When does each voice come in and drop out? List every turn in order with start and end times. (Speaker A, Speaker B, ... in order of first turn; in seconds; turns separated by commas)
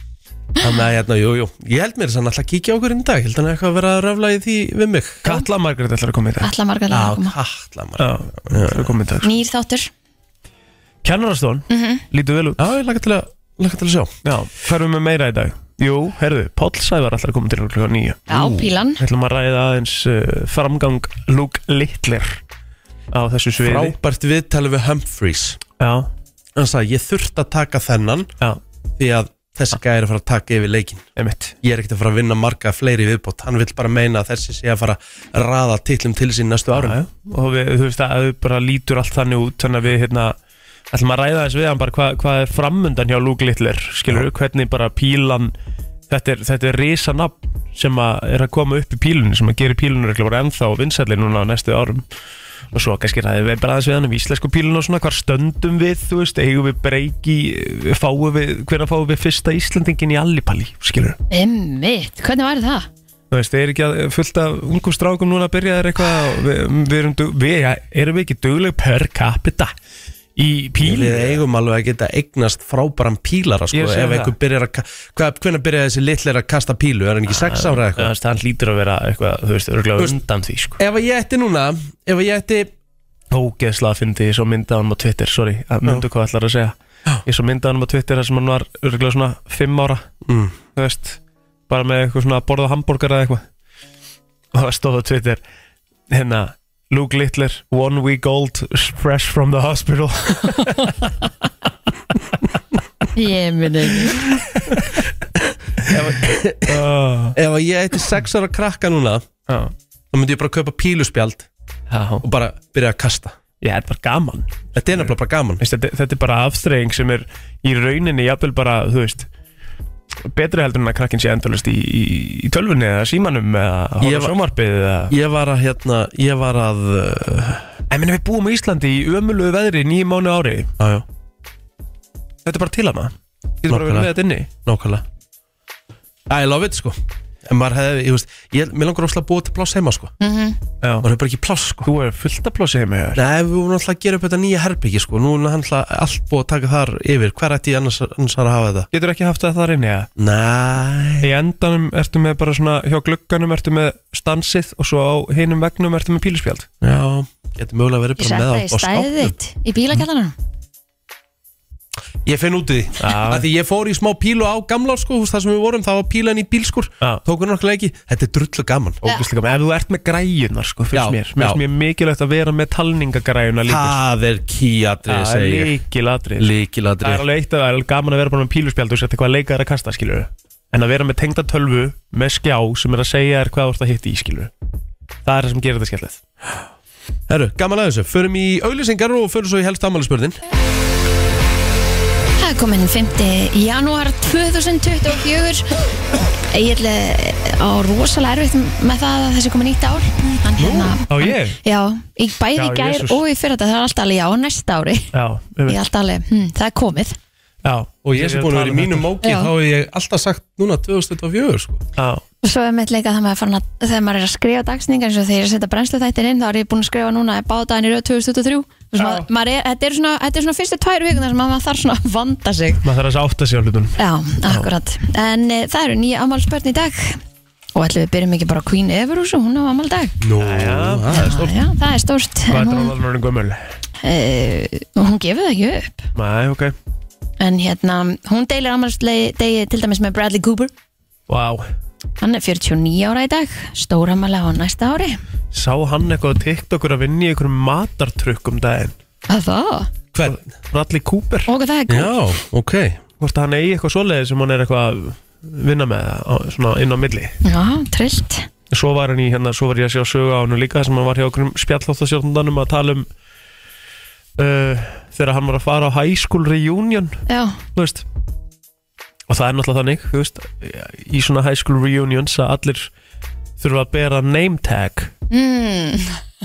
Speaker A: 0.6-5.3, Speaker B: 5.2-6.5, Speaker C: 6.4-7.3, Speaker A: 6.9-8.9, Speaker B: 8.0-9.3, Speaker C: 9.2-9.9, Speaker B: 11.0-12.7, Speaker C: 11.7-12.0, Speaker A: 12.6-14.1, Speaker B: 14.2-22.4, Speaker C: 18.3-19.0, Speaker B: 23.1-24.0, Speaker A: 23.6-25.6, Speaker B: 25.8-26.1, Speaker A: 26.6-28.3, Speaker A: 29.0-31.1, Speaker B: 31.2-31.6, Speaker A: 31.6-37.0, Speaker B: 36.7-40.4, Speaker B: 40.9-45.5, Speaker B: 46.1-52.0, Speaker B: 52.7-61.2, Speaker C: 61.3-62.9, Speaker B: 63.3-69.7, Speaker B: 70.4-71.4, Speaker A: 70.8-78.1, Speaker B: 73.7-74.3, Speaker B: 77.3-80.8, Speaker A: 80.8-82.7, Speaker B: 83.3-86.8, Speaker B: 87.3-90.1, Speaker A: 90.3-90.5, Speaker B: 90.8-93.4, Speaker B: 94.5-95.4, Speaker B: 96.1-101.1, Speaker C: 103.2-104.3, Speaker B: 104.4-104.9, Speaker A: 105.8-109.3, Speaker B: 106.7-107.4, Speaker B: 109.5-109.7, Speaker A: 110.1-111.5, Speaker B: 111.9-112.2, Speaker A: 112.2-113.4, Speaker B: 113.6-119.3, Speaker A: 114.8-115.6, Speaker B: 120.2-125.2, Speaker A: 124.0-124.4, Speaker A: 125.1-127.7, Speaker B: 127.9-130.7, Speaker A: 130.8-131.1, Speaker B: 132.4-134.5, Speaker A: 133.7-135.0, Speaker A: 136.3-140.1, Speaker C: 140.2-140.6, Speaker B: 140.8-141.1, Speaker A: 141.0-141.9, Speaker B: 141.8-143.2, Speaker A: 143.2-148.9, Speaker B: 148.9-150.1, Speaker A: 150.2-151.3, Speaker B: 151.2-156.7, Speaker A: 156.8-159.3, Speaker C: 158.2-160.3, Speaker A: 162.2-169.0, Speaker B: 163.0-163.4, Speaker B: 169.0-174.0, Speaker A: 170.9-171.6, Speaker A: 173.7-175.8, Speaker B: 175.1-176.5, Speaker A: 176.4-177.2, Speaker B: 177.0-184.5, Speaker B: 185.2-186.2, Speaker A: 187.3-190.4, Speaker C: 192.4-195.7, Speaker C: 196.5-205.1, Speaker B: 200.7-201.6, Speaker B: 202.6-203.2, Speaker B: 205.1-205.8, Speaker C: 205.7-207.2, Speaker B: 207.6-209.1, Speaker A: 208.1-211.9, Speaker C: 209.2-209.5, Speaker B: 212.0-212.2, Speaker C: 212.4-222.8, Speaker B: 219.0-219.3, Speaker B: 222.8-224.7, Speaker C: 224.0-227.2, Speaker C: 227.8-230.2, Speaker A: 230.2-231.5, Speaker B: 230.4-231.4, Speaker C: 231.1-232.9, Speaker B: 232.5-233.7, Speaker C: 234.0-236.1, Speaker B: 236.2-236.8, Speaker C: 237.4-240.7, Speaker B: 241.3-241.7, Speaker C: 242.2-245.2, Speaker B: 245.5-248.9, Speaker C: 249.3-249.9, Speaker A: 250.1-250.4, Speaker B: 250.2-251.5, Speaker C: 251.5-252.2, Speaker A: 251.9-253.0, Speaker B: 253.2-257.4, Speaker C: 257.4-258.5, Speaker B: 258.7-263.1, Speaker B: 264.4-267.2, Speaker C: 267.3-267.6, Speaker B: 267.8-268.1, Speaker B: 269.3-272.9, Speaker B: 273.6-275.1, Speaker C: 275.3-276.2